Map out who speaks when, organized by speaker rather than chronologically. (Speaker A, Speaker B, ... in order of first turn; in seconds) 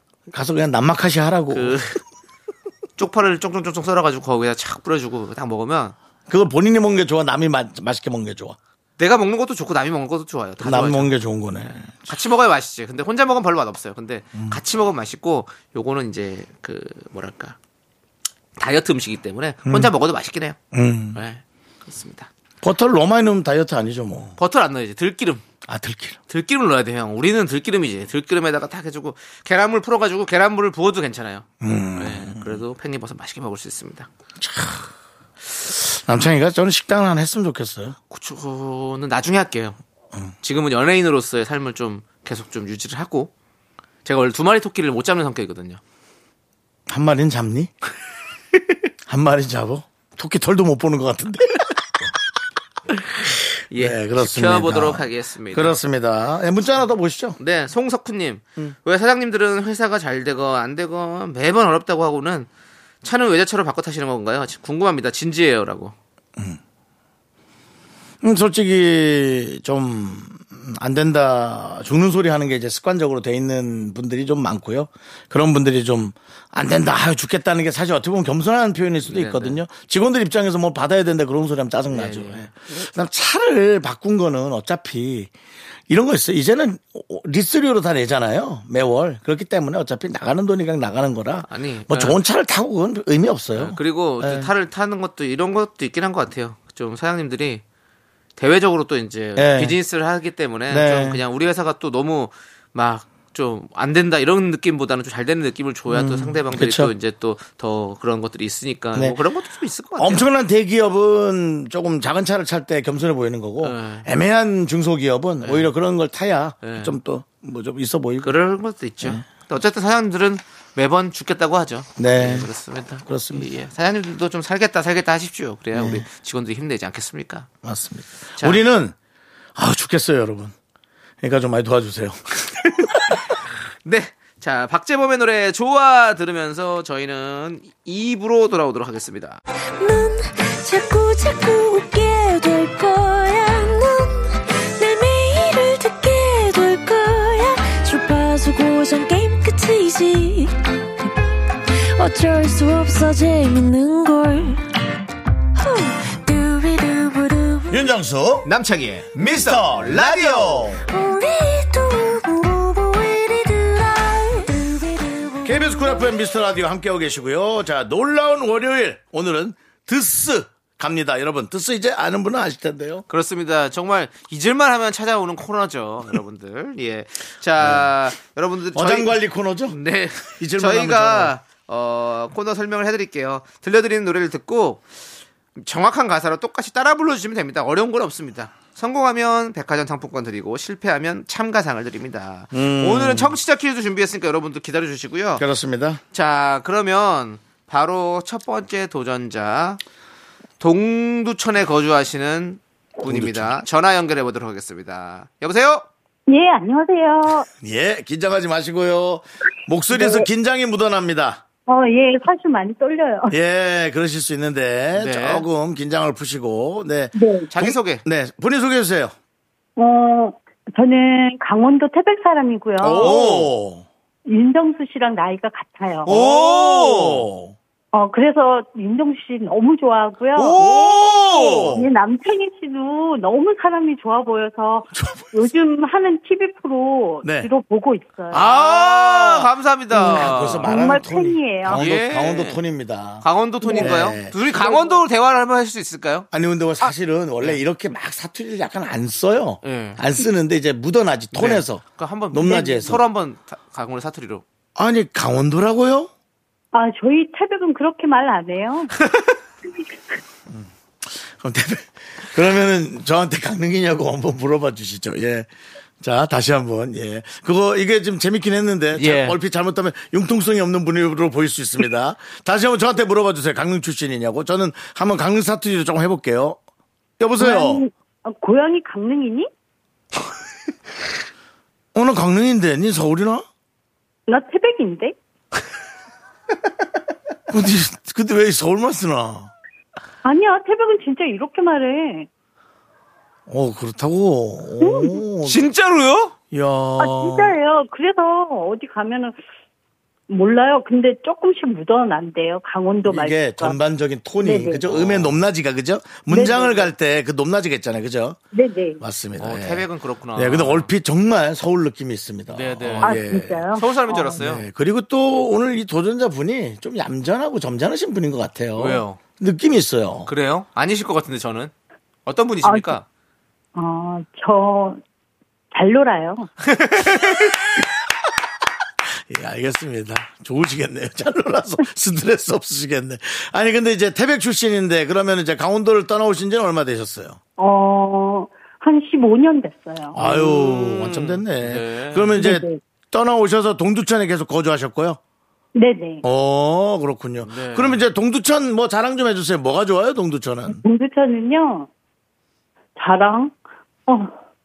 Speaker A: 0.3-1.8, 6.3-8.6, 10.6-12.1, 19.7-19.9, 20.7-21.2, 22.6-24.4, 25.7-26.2, 31.6-32.6, 34.4-34.9, 35.6-38.0, 46.9-47.7, 49.1-52.1, 53.3-57.4, 68.2-85.3, 85.9-94.5, 99.4-99.8, 100.7-101.2, 105.9-106.9, 110.0-118.3, 122.0-122.5, 123.1-123.5, 125.7-126.0, 127.6-128.9, 129.6-130.5, 131.2-133.2, 157.7-158.5, 159.2-160.8, 165.4-173.0, 177.6-177.9, 178.7-179.8, 180.3-181.3, 192.5-193.3, 195.4-196.0, 203.1-203.6, 207.6-211.4, 213.3-219.1, 222.8-223.9, 226.1-227.6, 230.4-231.9, 234.9-235.5, 237.2-237.5, 238.3-244.3, 246.3-253.0, 254.8-256.1, 260.5-265.5, 266.0-276.6, 277.2-277.8, 281.9-283.4, 287.5-289.5, 293.5-295.7, 296.5-297.5, 303.1-308.4, 309.0-309.9, 310.4-313.7, 314.3-320.3, 329.3-337.4, 340.1-345.2, 346.2-350.8
Speaker B: 1.5-2.0, 3.0-6.0, 9.0-11.1, 12.1-17.6, 18.6-20.6, 21.1-22.3, 24.4-25.4, 26.3-34.1, 38.1-39.8, 40.4-43.3, 44.0-45.8, 53.7-55.8, 57.4-62.5, 63.0-66.0, 79.1-79.6, 81.9-82.5, 91.5-92.2, 93.6-97.6, 98.4-110.2, 113.6-114.1, 115.4-115.7, 116.6-116.9, 118.2-127.5, 128.4-128.6, 133.8-139.4, 158.5-160.7, 173.1-184.8, 185.6-195.4, 196.1-199.8, 200.6-205.8, 214.9-215.4, 217.5-218.0, 222.9-223.5, 226.1-227.3, 230.5-231.8, 238.3-240.8, 241.8-242.6, 243.2-246.3, 249.6-250.0, 251.3-254.4, 269.0-269.4, 295.4-296.3, 304.9-305.4, 309.4-310.9, 312.5-313.2, 313.8-314.6, 318.8-319.2, 320.3-321.7, 322.3-323.0, 326.7-327.5, 340.2-342.4, 347.5-348.0
Speaker C: 139.8-151.1, 151.7-154.7, 155.6-157.9, 160.9-166.2
Speaker D: 206.3-207.5, 209.9-210.3, 211.7-213.4, 217.2-217.5, 219.8-223.2, 224.3-226.1, 227.9-230.6, 231.8-239.0, 239.9-241.9, 243.6-245.0, 256.7-258.9, 277.4-279.5, 284.3-285.1, 290.2-292.3, 294.8-295.2, 297.0-299.4, 300.3-303.8, 304.4-304.9, 306.3-306.9, 308.5-309.0, 313.0-314.4, 322.6-323.0, 323.8-325.0, 325.7-326.5, 337.6-340.2, 342.4-342.8, 345.8-346.2, 350.7-351.9, 353.0-353.6, 354.1-354.4